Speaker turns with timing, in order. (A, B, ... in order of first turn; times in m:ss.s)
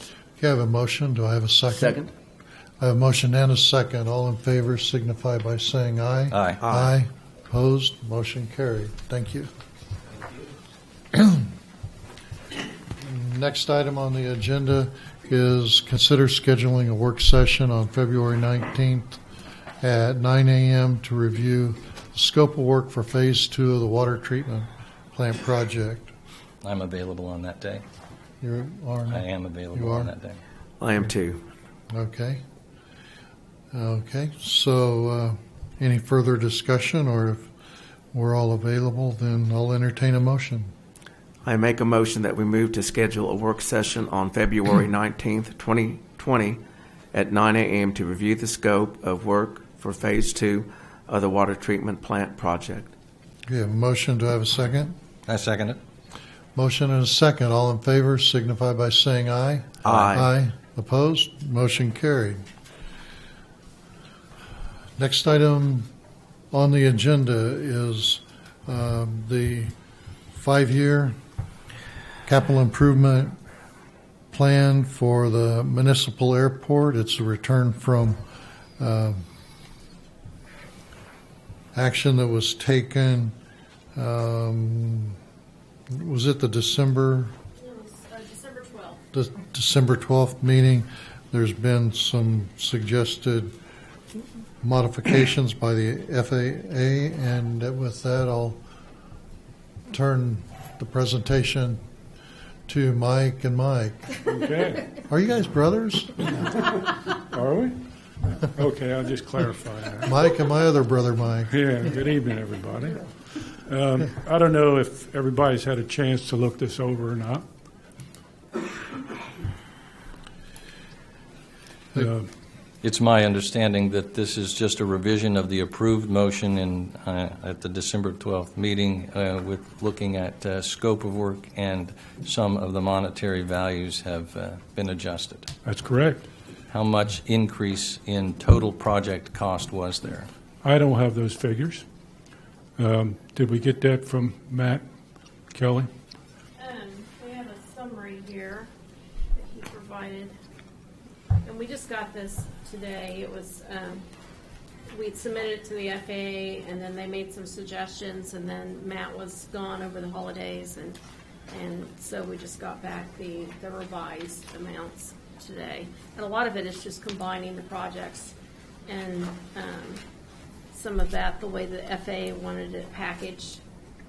0:00.4-0:02.0 A
0:01.7-0:02.1 B
0:02.8-0:09.5 A
0:06.3-0:06.6 C
0:06.6-0:06.9 B
0:13.0-0:19.2 A
0:19.8-0:26.1 A
0:26.6-0:27.8 C
0:28.4-0:30.1 A
0:29.1-0:30.4 C
0:30.8-0:31.4 B
0:31.9-0:32.4 A
0:33.7-0:37.5 A
0:38.1-0:40.7 A
0:41.4-0:46.6 B
0:47.1-0:52.9 B
0:53.5-0:54.9 A
0:55.3-0:55.8 C
0:56.5-1:02.4 A
0:59.8-1:00.3 B
1:05.0-1:05.9 A
1:06.5-1:09.7 A
1:10.3-1:11.2 A
1:12.2-1:13.4 A
1:14.3-1:18.2 A
1:18.8-1:19.2 A
1:21.7-1:23.3 A
1:24.0-1:25.2 A
1:25.9-1:27.3 A
1:27.6-1:29.0 D
1:29.1-1:33.5 A
1:34.6-1:38.6 A
1:39.9-1:41.8 A
1:42.7-1:44.1 A
1:44.2-1:44.9 E
1:45.0-1:46.3 A
1:47.2-1:50.1 E
1:50.0-1:51.6 A
1:51.5-1:57.4 E
2:01.9-2:02.3 E
2:02.8-2:15.5 C
2:15.6-2:16.2 E
2:16.7-2:20.3 C
2:20.6-2:21.8 E
2:22.8-2:24.8 E
2:25.5-2:25.9 E
2:26.6-2:28.7 D
2:29.3-2:30.3 D
2:31.4-2:34.0 D
2:34.9-2:41.0 D
2:41.5-2:48.3 D
2:48.9-2:50.0 D
2:50.7-2:53.6 D